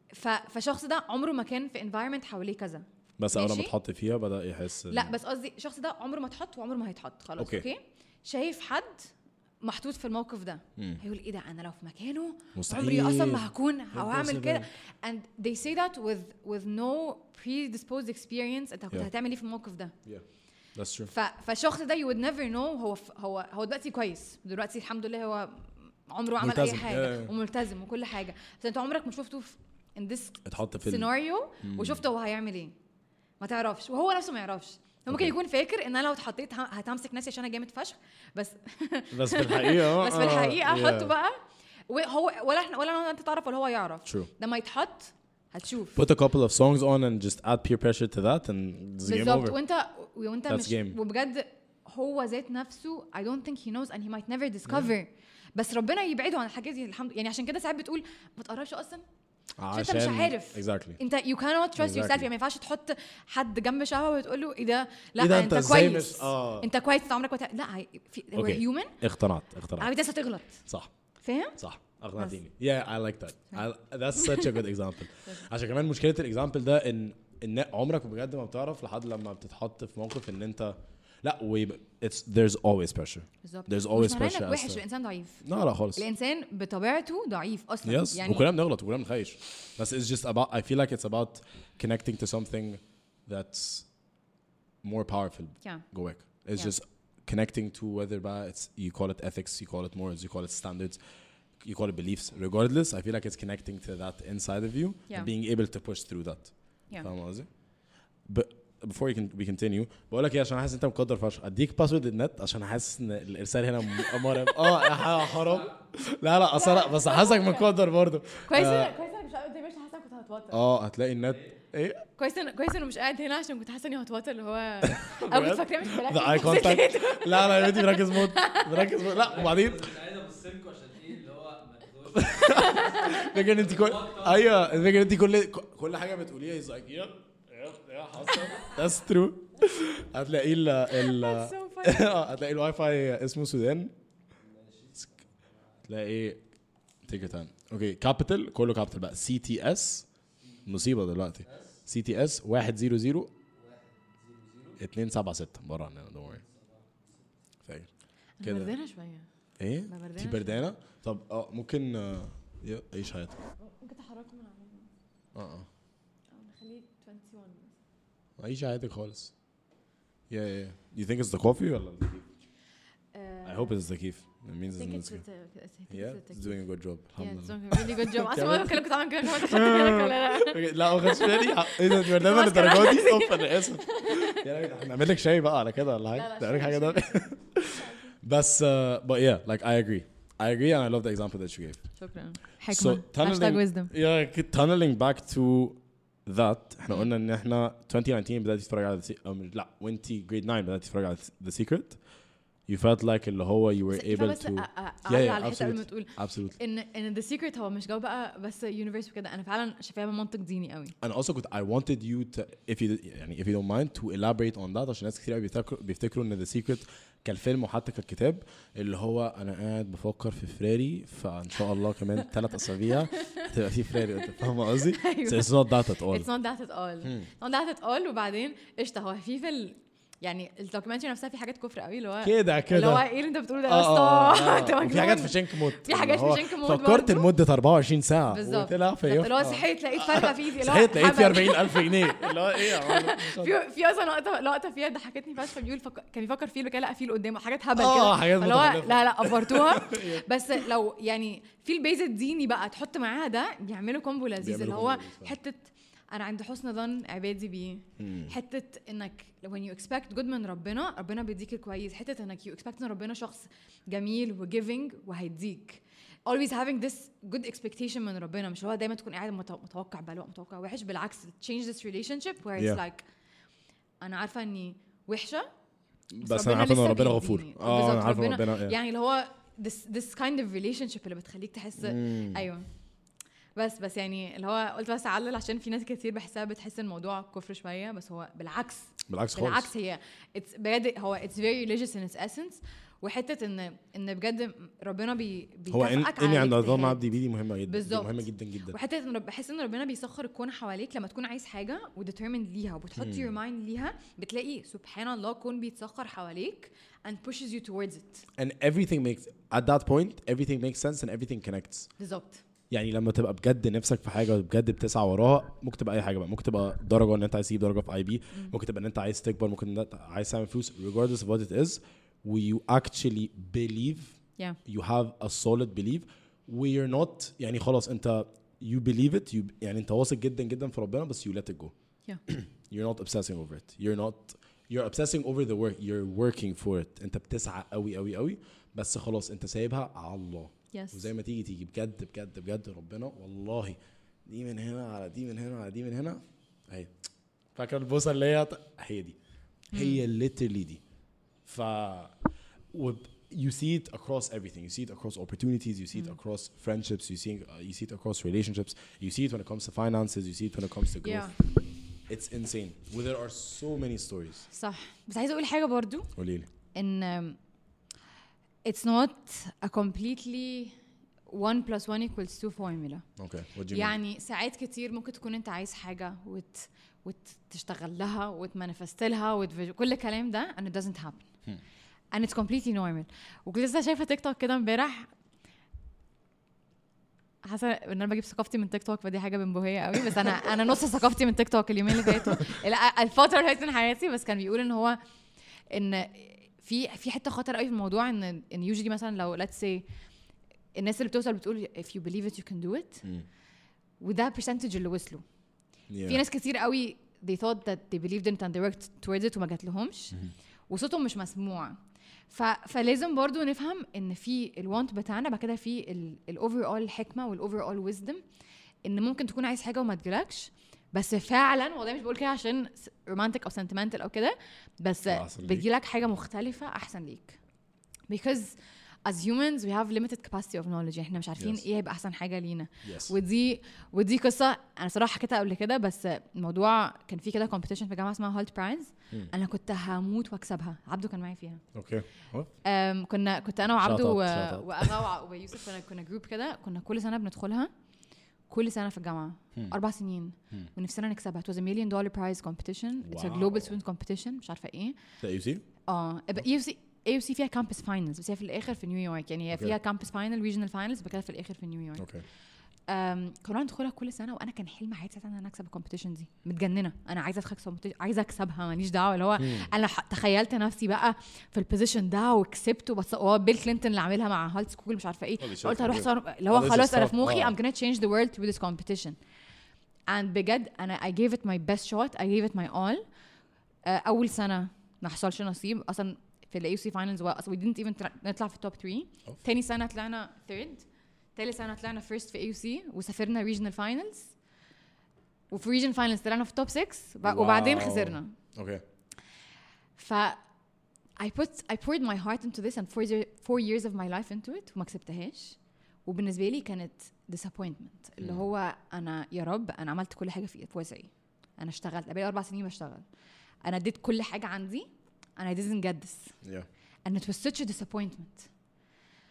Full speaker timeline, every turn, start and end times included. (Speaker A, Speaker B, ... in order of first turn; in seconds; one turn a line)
Speaker A: 0.1-3.7
Speaker B: 3.2-5.1
Speaker A: 4.9-19.9
Speaker B: 7.4-7.7
Speaker B: 12.6-14.7
Speaker B: 20.8-21.1
Speaker A: 21.1-32.8
Speaker B: 26.4-27.3
Speaker B: 30.4-31.1
Speaker B: 31.6-32.0
Speaker A: 33.4-46.0
Speaker B: 39.1-41.1
Speaker B: 46.0-49.6
Speaker A: 49.0-59.0
Speaker B: 50.5-51.0
Speaker B: 59.6-61.0
Speaker A: 59.7-69.0
Speaker B: 61.8-62.3
Speaker B: 65.2-66.7
Speaker B: 68.3-69.9
Speaker A: 69.8-70.6
Speaker A: 71.2-71.6
Speaker B: 71.6-84.8
Speaker A: 74.2-74.5
Speaker A: 83.4-85.4
Speaker B: 85.4-86.0
Speaker A: 86.0-88.5
Speaker B: 87.8-93.9
Speaker B: 94.8-101.0
Speaker B: 101.6-107.5
Speaker B: 108.3-118.9
Speaker C: 114.9-115.8
Speaker A: 116.5-117.7
Speaker A: 118.5-120.6
Speaker B: 120.5-122.0
Speaker C: 121.3-121.6
Speaker A: 122.2-128.9
Speaker B: 124.8-129.9
Speaker C: 129.0-135.1
Speaker B: 132.1-143.9
Speaker A: 132.5-133.2
Speaker C: 138.2-138.8
Speaker A: 140.9-142.2
Speaker C: 144.4-145.8
Speaker B: 145.9-146.4
Speaker B: 147.1-150.1
Speaker B: 150.7-153.3
Speaker C: 151.4-151.8
Speaker C: 153.5-154.8
Speaker B: 154.8-156.4
Speaker C: 156.3-157.3
Speaker B: 157.7-157.9
Speaker A: 158.4-159.3
Speaker B: 158.4-158.7
Speaker B: 159.6-163.4
Speaker A: 159.8-160.6
Speaker A: 163.6-164.9
Speaker B: 165.3-165.7
Speaker A: 166.3-167.8
Speaker B: 168.4-169.3
Speaker B: 170.3-172.3
Speaker A: 173.1-173.8
Speaker B: 173.4-175.2
Speaker A: 174.8-176.6
Speaker B: 175.9-191.8
Speaker A: 177.2-184.4
Speaker A: 186.1-188.1
Speaker A: 192.0-193.9
Speaker B: 192.7-202.0
Speaker B: 202.7-206.6
Speaker A: 203.9-210.9
Speaker B: 211.0-226.3
Speaker A: 222.9-223.5
Speaker A: 224.2-237.3
Speaker B: 227.0-227.3
Speaker B: 232.2-233.1
Speaker B: 233.7-243.6
Speaker A: 238.3-273.1
Speaker B: 247.8-250.3
Speaker B: 254.4-255.4
Speaker B: 258.0-258.3
Speaker A: 274.0-275.5
Speaker B: 276.1-278.8
Speaker A: 276.2-282.7
Speaker B: 281.8-282.5
Speaker A: 283.6-297.0
Speaker B: 289.1-289.7
Speaker B: 295.7-298.8
Speaker A: 297.7-308.3
Speaker B: 303.0-303.3
Speaker B: 308.4-311.9
Speaker A: 312.0-312.4
Speaker B: 312.7-331.7
Speaker B: 332.3-346.9
Speaker A: 340.7-341.1
Speaker B: 347.6-349.2
Speaker A: 349.7-350.0
Speaker B: 349.7-350.8
Speaker B: 351.5-352.2
Speaker B: 352.7-361.3
Speaker A: 361.0-361.4
Speaker B: 362.1-364.5
Speaker A: 364.5-366.1
Speaker B: 366.2-366.5
Speaker A: 366.7-367.4
Speaker A: 368.6-370.8
Speaker A: 371.3-373.1
Speaker B: 373.2-374.0
Speaker A: 373.7-381.3
Speaker A: 382.1-385.1
Speaker A: 387.4-395.0
Speaker A: 395.7-399.9
Speaker A: 400.8-403.1
Speaker A: 404.0-405.2
Speaker B: 405.9-406.2
Speaker A: 406.1-411.8
Speaker A: 412.3-418.2
Speaker A: 418.9-427.4
Speaker B: 425.1-425.7
Speaker A: 428.1-428.6
Speaker A: 429.1-441.6
Speaker B: 431.4-431.6
Speaker B: 432.8-433.1
Speaker B: 441.7-442.5
Speaker A: 442.6-447.7
Speaker B: 443.8-445.1
Speaker A: 448.5-455.0
Speaker B: 453.0-453.7
Speaker B: 455.2-455.6
Speaker A: 455.9-462.0
Speaker B: 462.0-462.2
Speaker A: 462.9-479.2
Speaker B: 469.4-469.7
Speaker B: 475.4-477.6
Speaker A: 480.1-483.0
Speaker A: 483.9-490.9
Speaker A: 491.4-494.4
Speaker A: 495.5-498.3
Speaker B: 497.2-498.8
Speaker A: 500.0-500.4
Speaker A: 501.2-513.0
Speaker A: 513.6-514.9
Speaker A: 515.4-516.3
Speaker A: 517.1-518.5